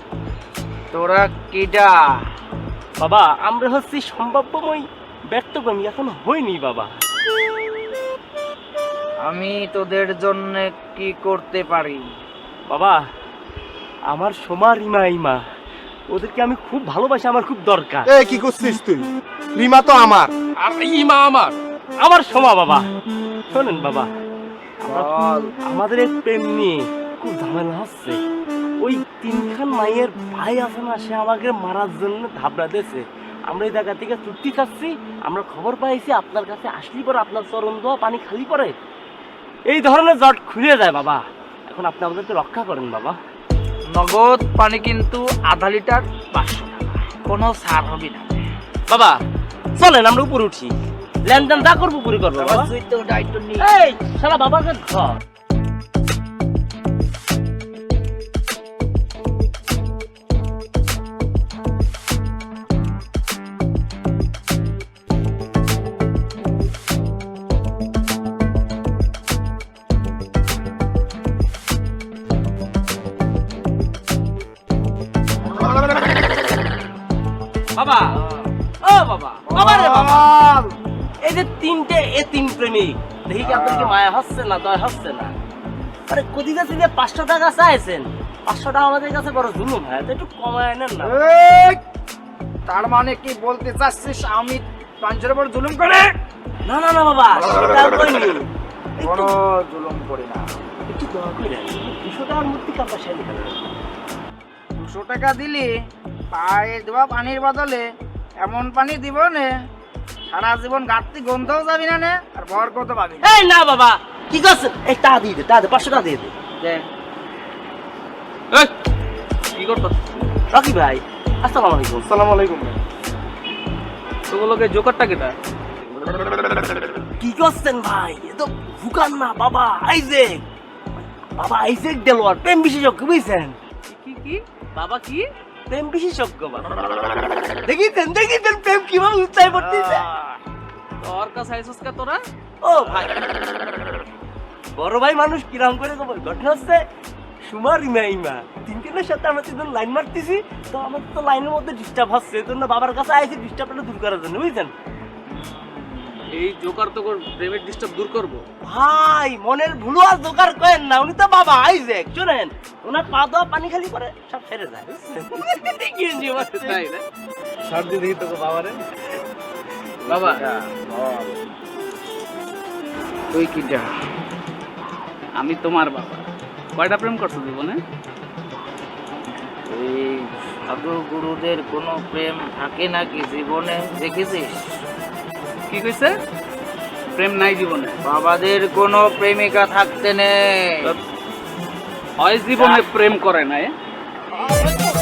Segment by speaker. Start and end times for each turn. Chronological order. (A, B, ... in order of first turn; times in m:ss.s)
0:00.9-0:02.2 A
0:03.0-0:06.9 B
0:09.2-0:12.0 A
0:12.7-0:13.0 B
0:14.1-0:15.4 B
0:16.1-0:18.1 B
0:18.1-0:20.3 C
0:20.6-0:22.9 B
0:23.5-0:24.1 B
0:24.8-0:25.5 A
0:24.8-0:28.2 B
0:28.8-0:38.8 B
0:39.7-0:43.2 B
0:44.0-0:48.3 A
0:48.9-0:49.2 B
0:49.8-0:52.7 B
0:52.3-0:53.7 A
0:53.6-0:55.2 B
1:17.8-1:18.3 B
1:18.8-1:20.3 B
1:19.5-1:20.7 A
1:21.2-1:25.3 B
1:23.4-1:24.0 A
1:26.1-1:31.3 B
1:31.0-1:31.8 A
1:32.7-1:36.1 A
1:36.7-1:38.5 B
1:39.0-1:39.3 B
1:39.0-1:40.4 A
1:40.9-1:43.6 B
1:44.8-1:45.7 A
1:46.3-1:47.9 A
1:48.4-1:49.5 A
1:50.3-1:53.4 A
1:53.2-1:56.3 B
1:56.6-1:56.8 A
1:59.6-2:00.3 D
2:00.5-2:02.1 B
2:02.0-2:02.8 C
2:04.3-2:05.4 D
2:07.2-2:13.6 B
2:13.9-2:15.3 D
2:15.7-2:16.8 B
2:17.5-2:20.1 B
2:19.5-2:20.4 D
2:21.0-2:22.2 D
2:22.6-2:23.5 B
2:24.8-2:26.8 B
2:27.4-2:34.7 B
2:35.3-2:36.2 A
2:36.3-2:38.4 D
2:38.6-2:46.8 B
2:46.4-2:47.0 D
2:47.7-2:48.9 D
2:50.0-2:51.6 A
2:50.1-2:50.4 D
2:53.3-2:53.9 A
2:55.4-2:56.2 D
2:56.8-2:57.8 D
2:59.7-3:04.6 A
3:05.7-3:06.2 D
3:07.1-3:08.0 D
3:08.0-3:10.9 A
3:12.2-3:13.7 D